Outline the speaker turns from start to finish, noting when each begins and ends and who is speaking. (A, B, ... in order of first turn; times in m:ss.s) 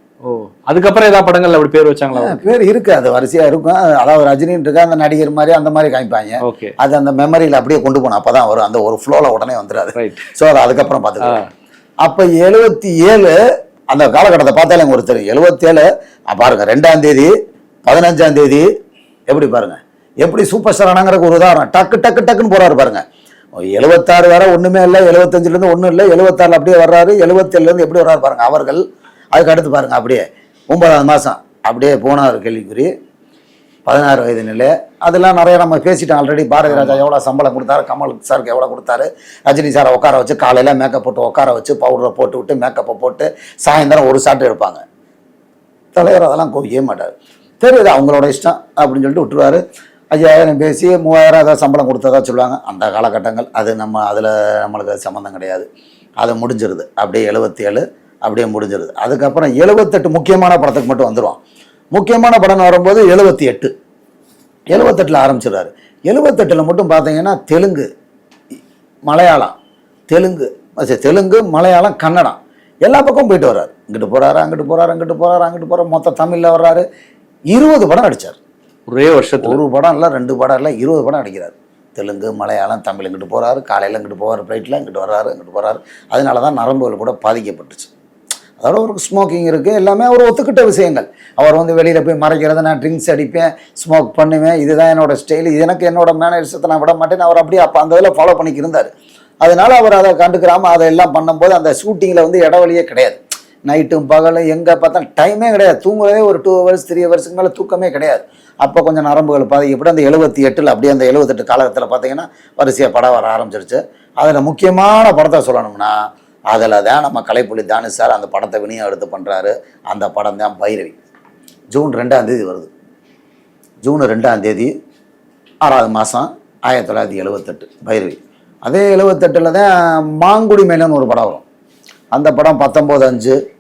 0:00.2-0:02.4 A
0:02.2-0:11.4 B
0:06.4-0:06.8 A
0:10.0-0:10.2 A
0:11.2-0:11.5 A
0:12.0-0:13.4 B
0:13.9-0:17.3 B
0:17.9-0:18.7 B
0:19.3-0:23.0 B
0:23.6-0:32.9 B
0:33.9-0:44.8 B
0:36.7-0:37.0 A
0:46.0-0:49.6 B
0:50.1-0:55.7 B
0:56.2-1:01.4 B
1:01.9-1:03.7 B
1:04.7-1:07.9 B
1:09.1-1:09.6 B
1:10.1-1:16.8 B
1:17.5-1:18.4 B
1:18.9-1:19.6 A
1:19.4-1:27.9 B
1:28.6-1:38.9 B
1:39.4-1:56.0 B
1:56.5-2:01.0 B
2:01.7-2:02.7 B
2:03.8-2:04.7 B
2:05.6-2:11.4 B
2:12.1-2:13.4 B